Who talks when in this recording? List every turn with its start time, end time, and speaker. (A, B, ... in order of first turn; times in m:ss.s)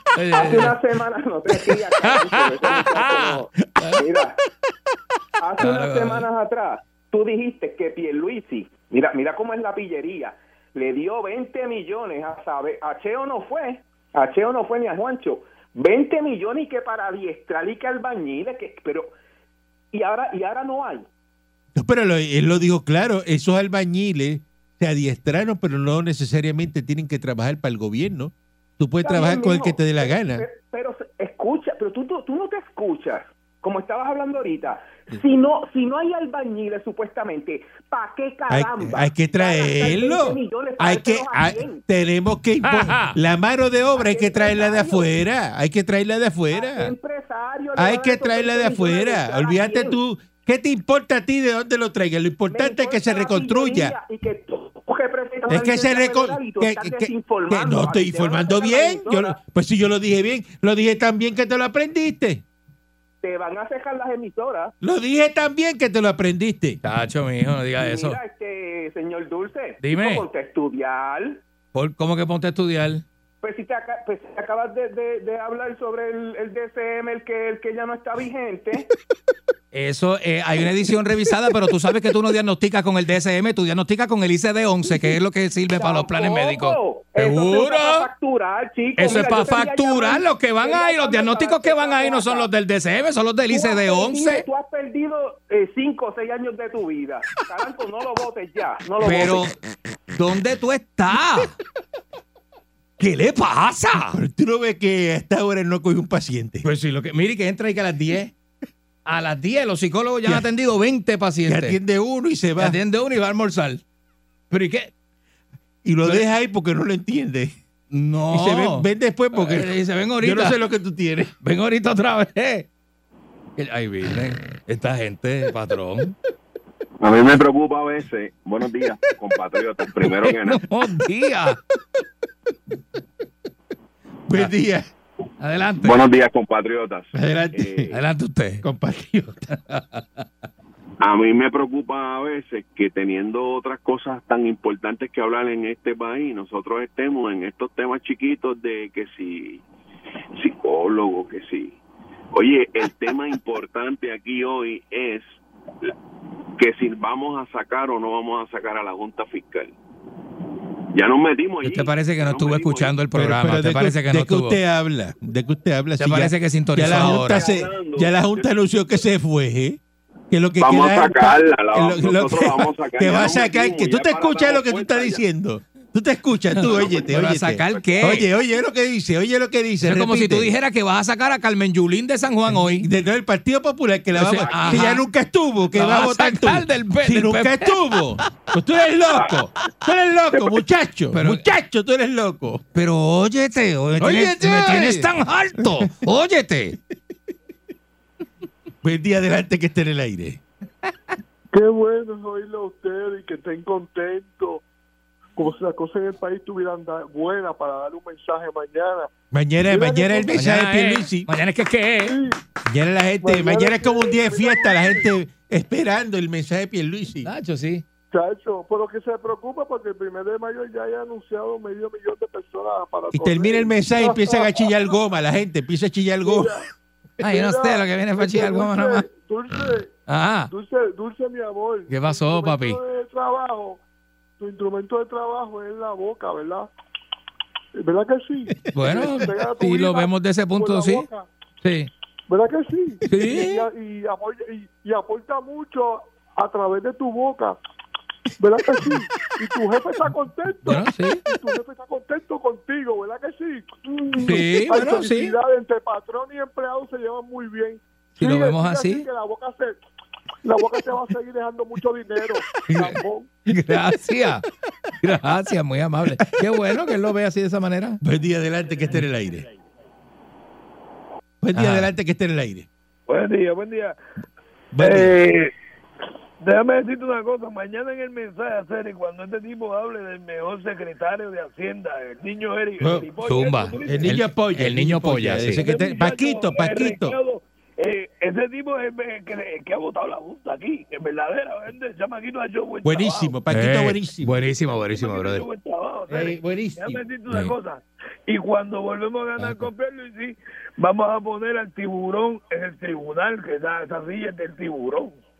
0:00.1-0:00.8 A
0:00.3-0:04.4 B
0:02.0-0:04.0 A
0:05.4-0:19.1 B
0:05.6-0:06.3 A
0:19.9-0:21.1 B
0:21.7-0:30.4 C
0:29.0-0:41.8 B
0:38.5-0:46.9 C
0:42.6-0:43.2 A
0:44.0-0:45.1 B
0:46.5-0:50.0 B
0:47.8-0:54.0 C
0:52.5-0:59.4 B
0:55.5-1:02.4 C
1:03.2-1:04.7 B
1:04.8-1:06.8 C
1:06.8-1:08.2 A
1:07.8-1:11.4 B
1:09.8-1:10.2 A
1:11.7-1:13.0 A
1:13.4-1:18.9 B
1:19.7-1:28.1 A
1:25.7-1:32.5 B
1:29.0-1:34.4 A
1:33.5-1:39.5 B
1:39.0-1:39.5 A
1:40.1-1:41.6 A
1:43.0-1:44.2 A
1:44.1-1:46.6 C
1:46.6-1:48.3 A
1:49.0-1:51.8 A
1:51.4-1:52.8 C
1:52.6-1:53.8 A
1:54.5-1:54.9 A
1:55.8-1:57.5 C
1:57.9-2:00.6 A
1:58.3-2:01.3 C
2:01.4-2:02.7 A
2:03.6-2:06.1 A
2:07.0-2:10.6 D
2:10.0-2:11.6 A
2:14.3-2:14.9 C
2:15.4-2:16.0 A
2:15.8-2:17.9 D
2:17.1-2:17.9 C
2:17.9-2:18.6 A
2:18.6-2:19.5 C
2:19.5-2:20.2 A
2:21.0-2:29.6 D
2:30.4-2:31.8 D
2:32.3-2:35.9 D
2:36.6-2:39.7 D
2:40.9-2:43.0 D
2:41.6-2:44.6 A
2:43.1-2:49.8 C
2:46.0-2:47.4 A
2:46.8-2:48.5 D
2:50.3-3:00.5 C
2:50.6-2:55.2 D
2:56.5-2:58.3 A
2:56.7-2:57.1 D
2:57.7-2:58.2 D
2:59.8-3:02.9 A
3:02.5-3:12.6 C
3:04.1-3:05.0 A
3:04.4-3:04.8 D
3:05.7-3:08.0 A
3:11.1-3:11.4 A
3:12.7-3:16.8 A
3:14.0-3:15.9 C
3:18.8-3:20.4 C
3:21.5-3:24.6 E
3:25.4-3:29.1 E
3:29.3-3:31.3 C
3:29.7-3:30.4 E
3:30.3-3:32.2 A
3:32.0-3:32.4 E
3:32.6-3:37.3 C
3:33.2-3:35.1 E
3:37.2-3:37.8 A
3:38.1-3:44.7 E
3:43.1-3:46.7 C
3:46.2-3:46.7 E
3:47.2-3:49.0 A
3:47.2-3:49.9 E
3:50.1-3:50.5 A
3:50.5-3:53.8 E
3:51.9-3:52.8 A
3:54.4-3:56.7 E
3:57.8-4:01.3 E
3:58.7-4:01.1 A
4:01.6-4:01.9 A
4:02.3-4:07.6 E
4:03.1-4:03.6 A
4:08.4-4:19.7 E
4:10.6-4:11.2 A
4:14.2-4:15.3 A
4:18.2-4:19.0 A
4:20.4-4:23.3 E
4:22.7-4:24.4 A
4:25.0-4:28.0 A
4:28.0-4:29.4 C
4:31.4-4:32.7 C
4:31.5-4:31.9 A
4:33.1-4:34.0 F
4:34.7-4:35.1 C
4:34.8-4:35.5 F
4:36.4-4:44.3 F
4:42.8-4:43.1 C
4:43.2-4:45.6 A
4:43.8-4:47.2 C
4:45.5-4:53.4 F
4:52.8-4:54.4 C
4:53.5-4:55.5 A
4:54.9-5:05.2 F
4:56.1-4:57.0 C
4:57.3-4:57.5 A
4:59.4-4:59.7 A